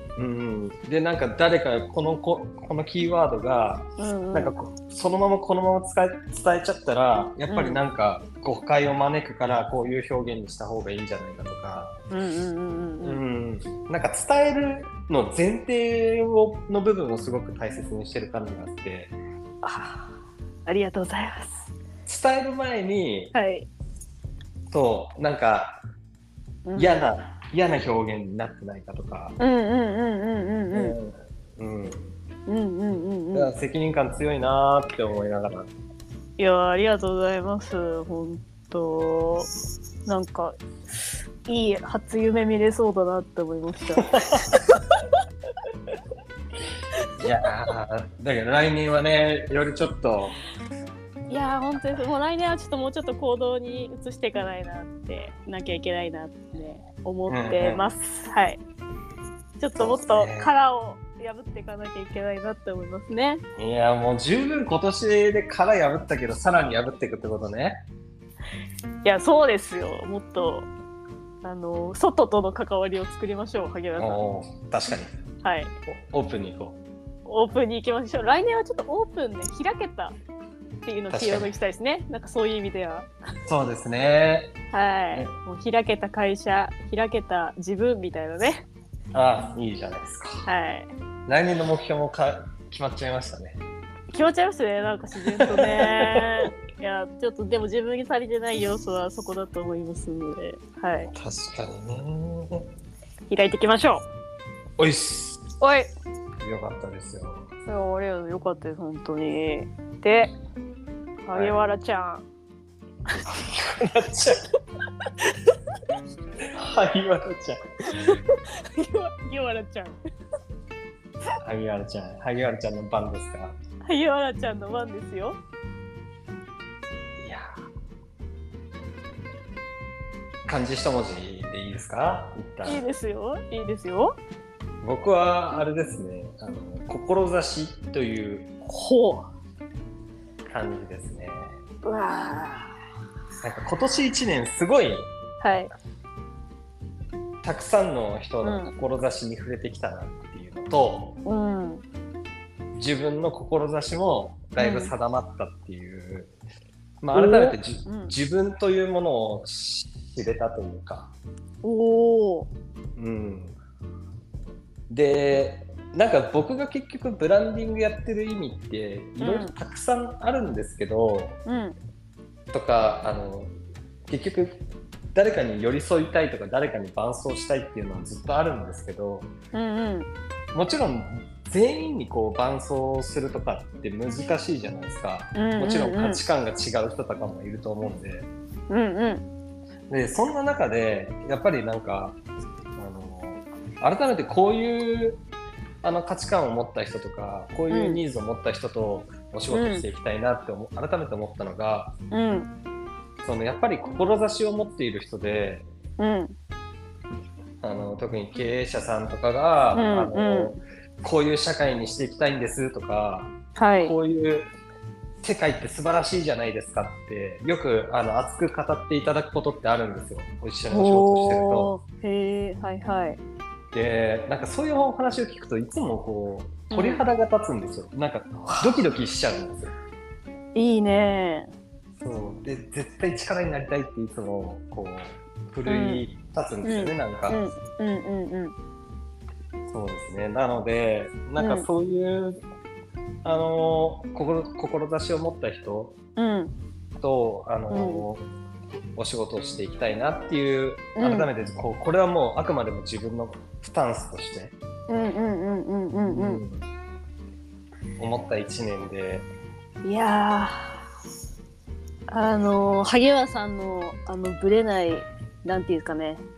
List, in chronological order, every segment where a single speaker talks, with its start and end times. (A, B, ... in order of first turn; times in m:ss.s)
0:00.2-0:12.0 A
0:04.0-0:04.6 B
0:07.5-0:07.8 B
0:12.1-0:13.2 B
0:13.0-0:19.2 A
0:19.6-0:20.2 B
0:20.7-0:21.7 B
0:22.1-0:23.3 A
0:23.3-0:23.7 B
0:24.7-0:25.8 A
0:26.7-0:27.0 B
0:26.8-0:29.4 A
0:29.4-0:31.0 B
0:30.7-0:32.1 A
0:32.5-0:33.5 B
0:33.3-0:35.7 A
0:36.4-0:39.5 B
0:40.1-0:40.6 B
0:41.5-0:44.8 B
0:44.1-0:44.6 A
0:47.2-0:50.4 A
0:51.3-0:58.6 B
0:57.3-0:57.8 A
0:59.6-1:03.4 B
0:59.8-1:00.5 A
1:03.6-1:07.8 A
1:09.0-1:10.7 B
1:11.4-1:14.2 B
1:14.0-1:15.1 A
1:15.4-1:15.7 B
1:15.9-1:16.8 A
1:17.3-1:20.2 B
1:20.8-1:23.1 B
1:21.1-1:21.5 A
1:23.5-1:24.5 A
1:24.7-1:28.7 B
1:29.1-1:30.4 A
1:30.4-1:30.9 B
1:31.3-1:33.6 A
1:34.1-1:41.1 B
1:35.4-1:36.5 A
1:41.1-1:42.7 A
1:43.3-1:44.1 B
1:44.8-1:45.5 A
1:45.6-1:45.9 B
1:46.4-1:47.5 A
1:47.6-1:50.3 B
1:51.2-1:52.2 B
1:51.3-1:51.6 A
1:53.3-1:54.4 A
1:56.5-1:57.6 A
1:57.9-2:00.0 B
2:01.4-2:03.6 A
2:03.8-2:05.4 B
2:07.2-2:07.5 A
2:10.5-2:12.8 A
2:12.6-2:14.2 B
2:14.8-2:18.6 A
2:18.7-2:19.3 B
2:20.5-2:21.6 A
2:21.8-2:22.8 B
2:23.4-2:25.1 A
2:25.4-2:25.7 B
2:27.4-2:31.2 A
2:28.4-2:28.7 B
2:31.2-2:31.8 B
2:32.7-2:36.3 A
2:34.6-2:35.0 B
2:37.0-2:41.1 A
2:37.1-2:38.1 B
2:41.6-2:42.5 B
2:43.0-2:43.6 A
2:44.9-2:51.4 A
2:49.2-2:49.5 B
2:51.5-2:51.8 B
2:52.5-2:53.5 A
2:54.1-2:59.3 A
2:59.5-3:00.1 B
3:00.5-3:08.3 A
3:05.4-3:06.2 B
3:08.7-3:09.2 B
3:09.9-3:12.2 A
3:12.8-3:15.2 A
3:15.8-3:21.9 A
3:17.7-3:18.0 B
3:19.5-3:19.9 B
3:22.1-3:22.5 B
3:23.2-3:25.7 A
3:26.0-3:26.4 B
3:27.6-3:34.5 A
3:29.7-3:30.6 B
3:33.6-3:34.0 B
3:35.2-3:41.7 A
3:40.7-3:43.2 B
3:43.7-3:49.7 A
3:46.7-3:47.0 B
3:50.6-3:51.5 B
3:52.0-3:57.4 A
3:55.7-3:56.0 B
3:56.6-3:58.6 B
3:59.7-4:02.4 A
4:01.4-4:01.7 B
4:03.2-4:06.0 A
4:06.2-4:06.5 B
4:07.0-4:08.3 A
4:07.7-4:08.1 B
4:09.0-4:14.5 A
4:11.0-4:11.3 B
4:14.9-4:16.4 B
4:16.1-4:16.7 A
4:18.0-4:19.3 A
4:19.8-4:20.8 B
4:22.1-4:26.2 B